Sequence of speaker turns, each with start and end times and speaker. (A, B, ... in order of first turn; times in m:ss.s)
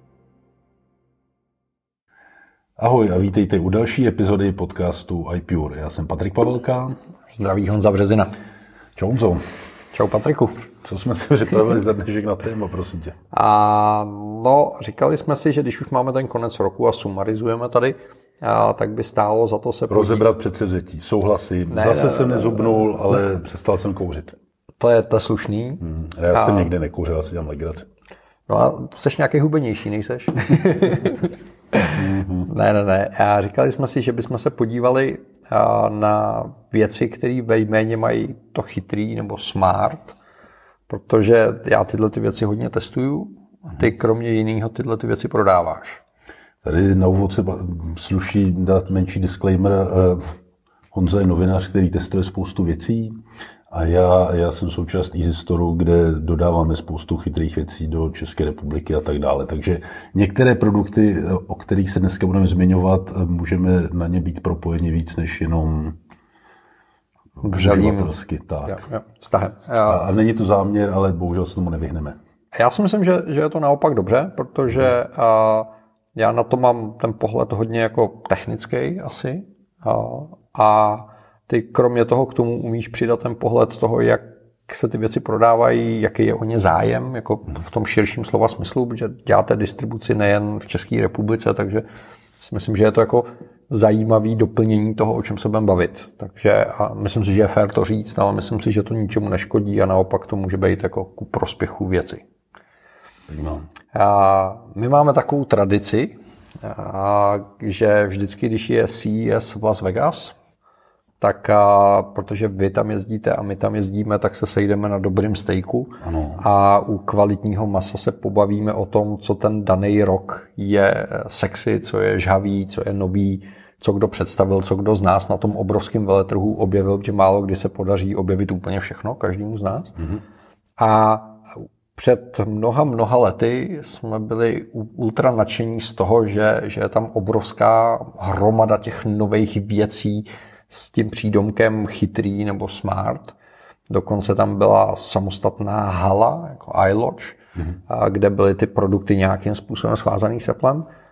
0:02.8-0:07.0 A
0:07.3-0:08.4 B
0:09.0-0:09.4 A
0:09.9-0:10.7 B
0:10.8-0:13.2 A
0:13.3-0:20.3 B
0:19.9-0:24.4 A
0:21.7-0:22.9 B
0:24.8-0:25.8 B
0:25.8-0:27.9 A
0:26.3-0:26.7 B
0:28.5-0:32.0 B
0:32.0-0:32.5 A
0:32.5-0:40.2 B
0:40.9-0:46.0 B
0:46.6-0:50.2 A
0:50.9-0:53.2 A
0:53.7-1:06.0 A
1:07.4-1:08.8 A
1:07.4-1:08.1 B
1:08.7-1:10.0 B
1:09.9-1:12.2 A
1:12.6-1:31.8 B
1:32.4-1:42.2 B
1:43.3-1:43.6 A
1:43.9-1:50.4 B
1:51.2-2:10.0 B
1:56.0-1:56.4 A
2:10.8-2:23.4 B
2:23.9-2:30.9 B